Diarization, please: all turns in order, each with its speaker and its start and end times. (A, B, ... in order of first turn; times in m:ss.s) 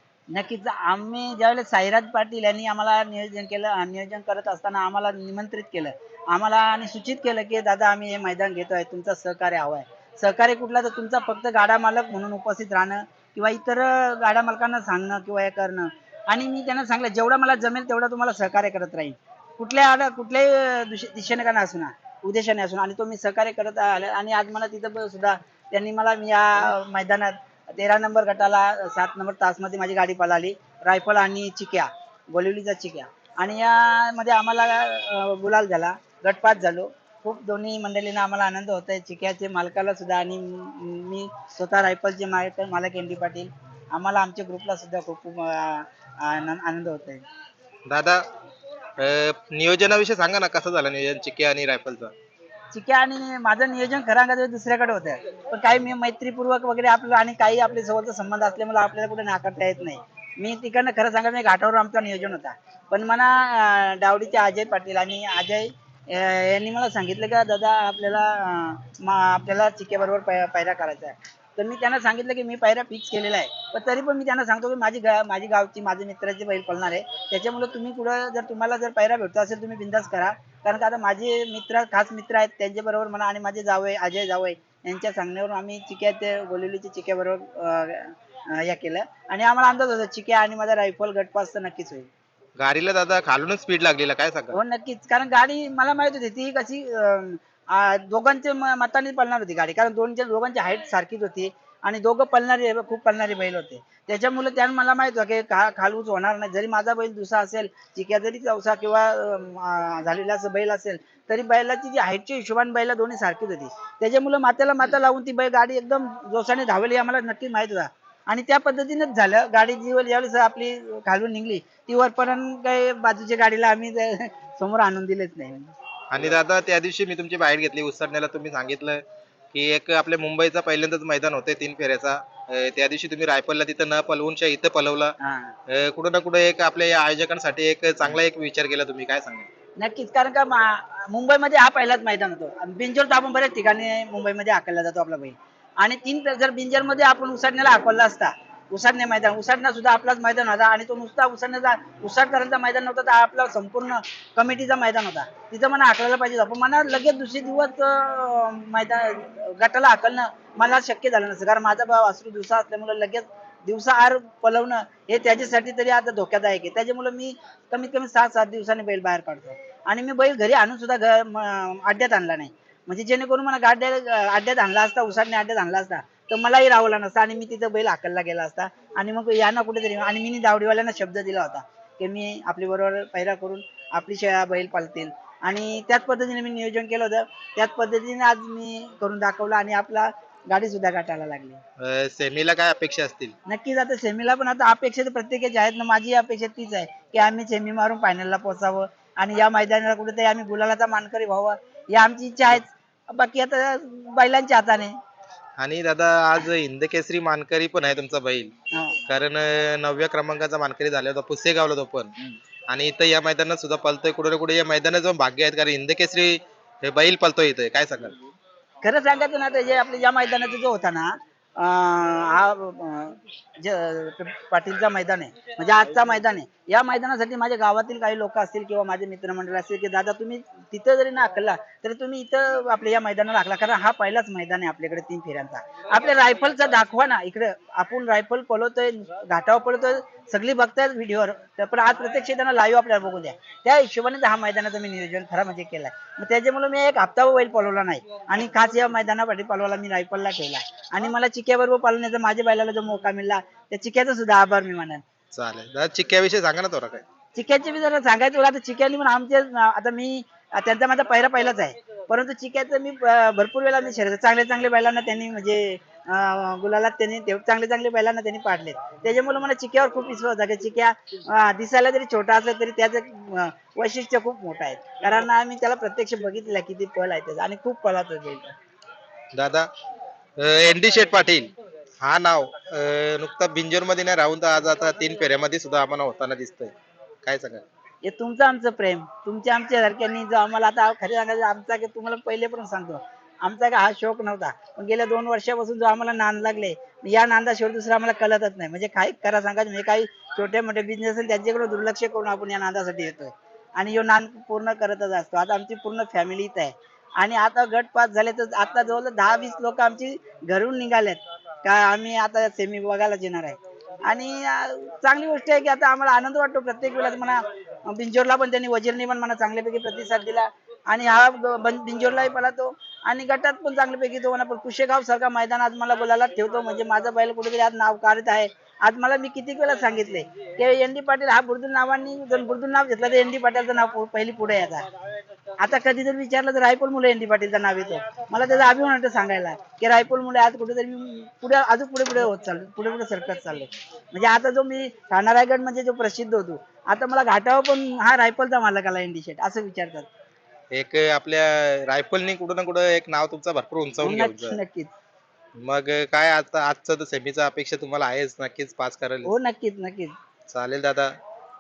0:00.3-0:47.2 A
0:47.9-0:48.2 B
0:49.0-0:52.1 B
0:52.7-1:32.1 A
1:32.6-1:34.6 B
1:34.5-2:05.7 A
2:06.1-2:09.0 B
2:09.5-2:15.2 B
2:15.2-2:15.6 A
2:15.7-2:19.5 B
2:19.8-3:11.6 A
3:11.8-3:13.4 B
3:13.5-3:24.9 A
3:25.6-3:28.5 B
3:28.7-3:29.0 A
3:29.1-3:32.1 B
3:32.7-3:38.2 B
3:38.8-4:15.0 A
4:15.3-4:17.0 B
4:17.3-4:38.5 A
4:39.3-4:39.7 B
4:40.4-4:47.6 B
4:48.0-5:34.9 A
5:35.6-5:50.1 A
5:50.7-5:54.6 B
5:54.0-5:54.9 A
5:55.6-5:59.3 B
5:59.3-6:00.1 A
6:00.5-6:01.1 B